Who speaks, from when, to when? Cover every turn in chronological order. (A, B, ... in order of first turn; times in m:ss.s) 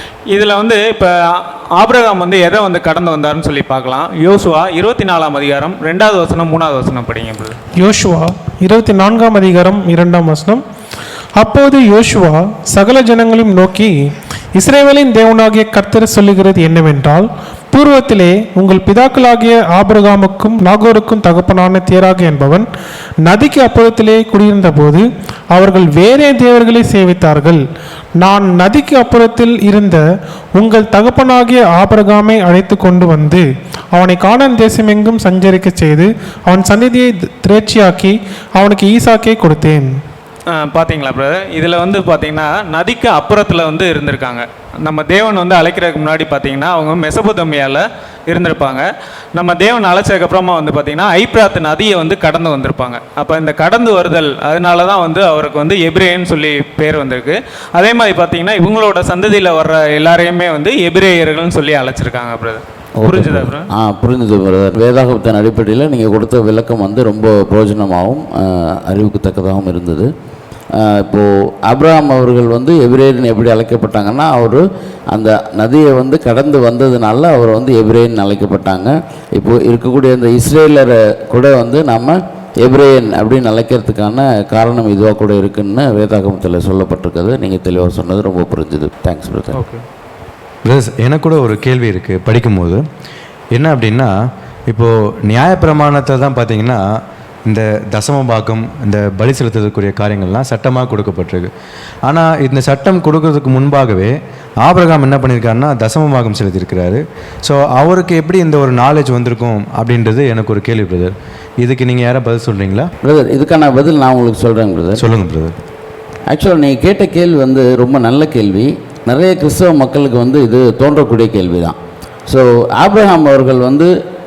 0:00.3-0:07.6 A
0:07.8-0:10.6 B
0:11.4-0:13.9 B
0:14.6-0:22.7 B
0:23.2-0:27.6 B
0:28.2-0:30.0 B
0:30.6-0:39.9 B
0:40.5-1:03.7 A
1:03.0-1:10.1 C
1:10.8-1:29.6 C
1:29.5-1:29.8 A
1:30.6-1:32.8 D
1:33.5-1:34.1 D
1:34.7-1:36.8 D
1:37.5-1:41.5 D
1:42.1-1:52.9 D
1:53.0-1:55.0 C
1:55.0-1:55.6 D
1:56.3-2:01.8 C
2:02.3-2:03.9 C